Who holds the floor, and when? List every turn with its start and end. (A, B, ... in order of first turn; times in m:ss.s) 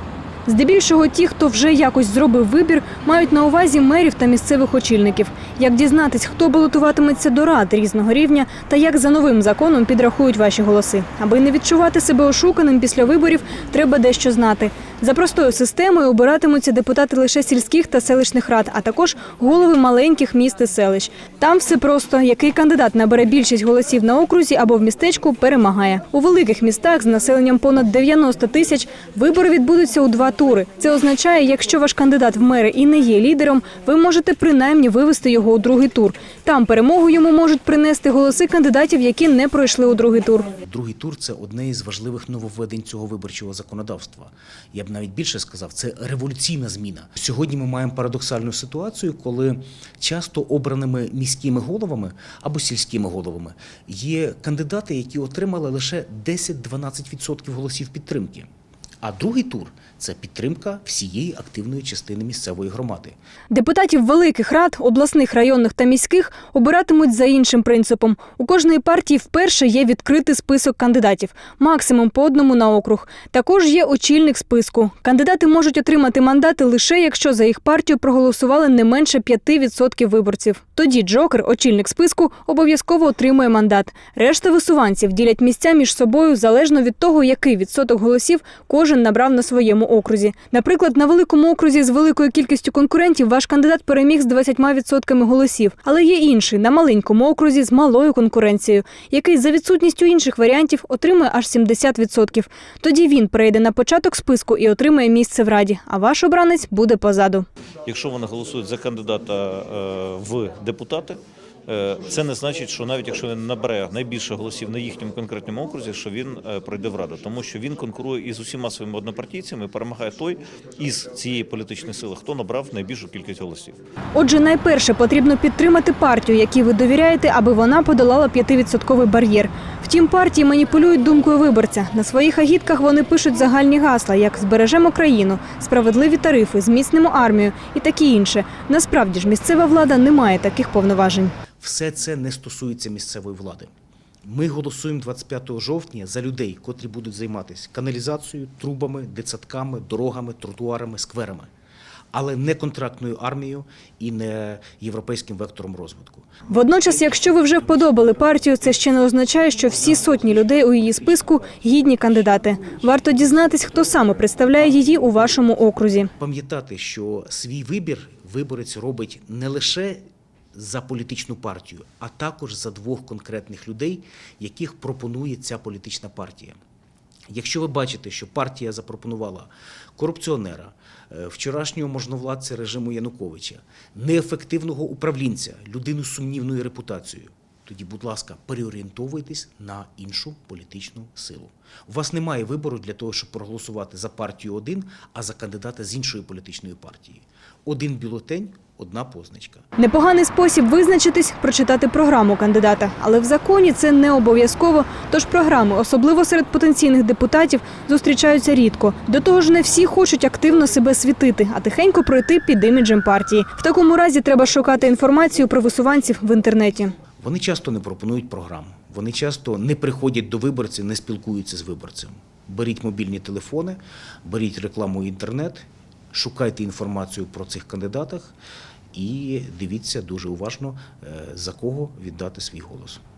0:00.5-0:40.5 A
0:40.6-0:58.5 B
0:59.0-1:03.2 B
1:03.5-1:47.4 A
1:47.8-2:03.8 C
2:04.1-2:21.3 A
2:21.6-2:23.7 B
2:24.2-2:31.5 B
2:32.1-2:36.3 B
2:36.5-2:46.1 A
2:46.2-2:56.6 B
2:57.3-3:19.6 B
3:19.8-3:36.9 A
3:37.2-3:48.3 B
3:48.9-3:53.0 B